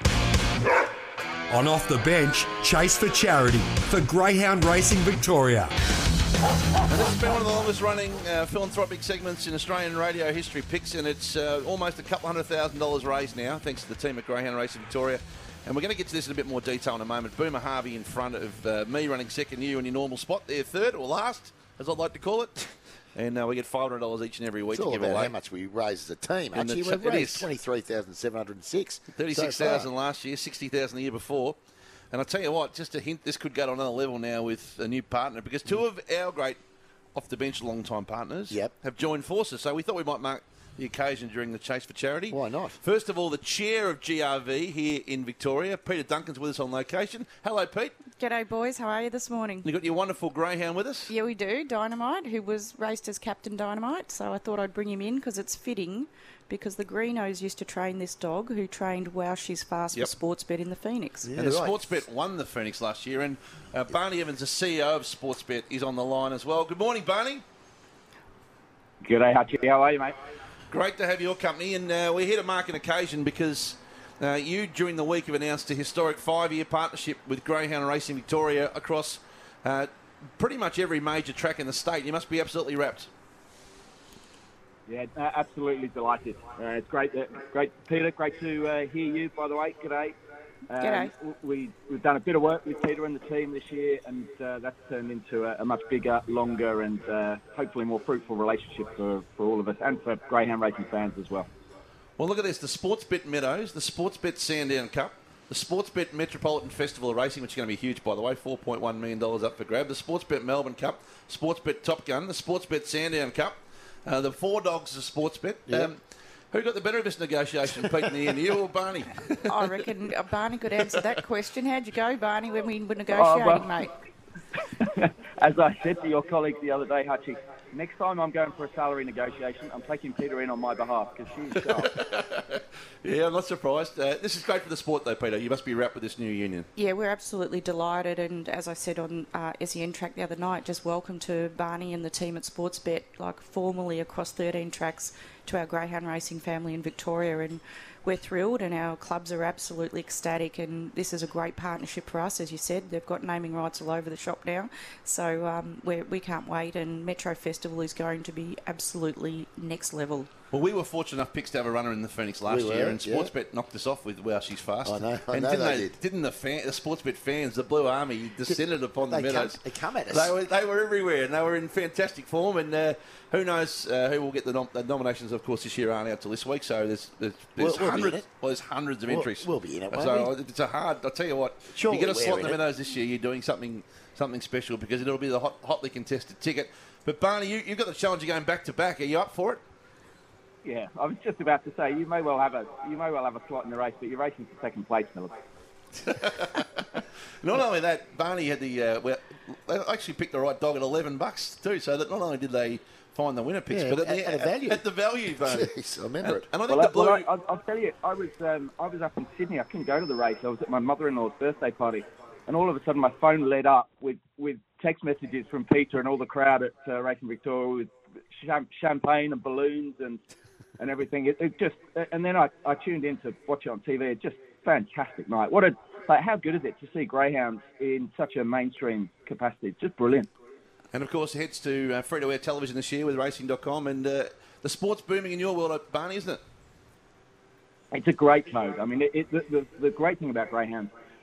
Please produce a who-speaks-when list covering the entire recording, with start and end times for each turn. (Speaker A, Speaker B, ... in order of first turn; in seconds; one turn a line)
Speaker A: 1.5-5.7
Speaker B: 6.9-25.3
Speaker C: 24.7-29.9
Speaker B: 26.5-27.5
Speaker B: 29.1-31.6
Speaker B: 32.1-36.6
Speaker B: 37.1-47.9
Speaker C: 42.3-42.8
Speaker D: 48.2-49.7
Speaker B: 49.6-51.1
Speaker D: 51.1-61.3
Speaker C: 61.2-61.8
Speaker B: 61.3-67.4
Speaker E: 69.0-70.2
Speaker B: 70.7-83.1
Speaker E: 84.9-90.2
Speaker E: 90.7-101.5
Speaker D: 90.8-91.1
Speaker B: 102.2-119.5
Speaker C: 117.7-118.0
Speaker D: 119.4-123.9
Speaker E: 123.1-123.8
Speaker E: 124.8-131.9
Speaker B: 131.6-136.7
Speaker D: 136.8-160.3
Speaker B: 160.5-189.6
Speaker C: 162.5-163.3
Speaker C: 164.8-165.9
Speaker C: 168.5-170.3
Speaker C: 177.6-178.2
Speaker C: 179.1-180.3
Speaker C: 181.7-182.6
Speaker E: 190.6-195.3
Speaker B: 196.0-207.3
Speaker C: 203.7-204.9
Speaker C: 205.4-206.5
Speaker E: 206.7-220.2
Speaker E: 220.8-230.3
Speaker B: 230.9-236.4
Speaker E: 237.9-240.9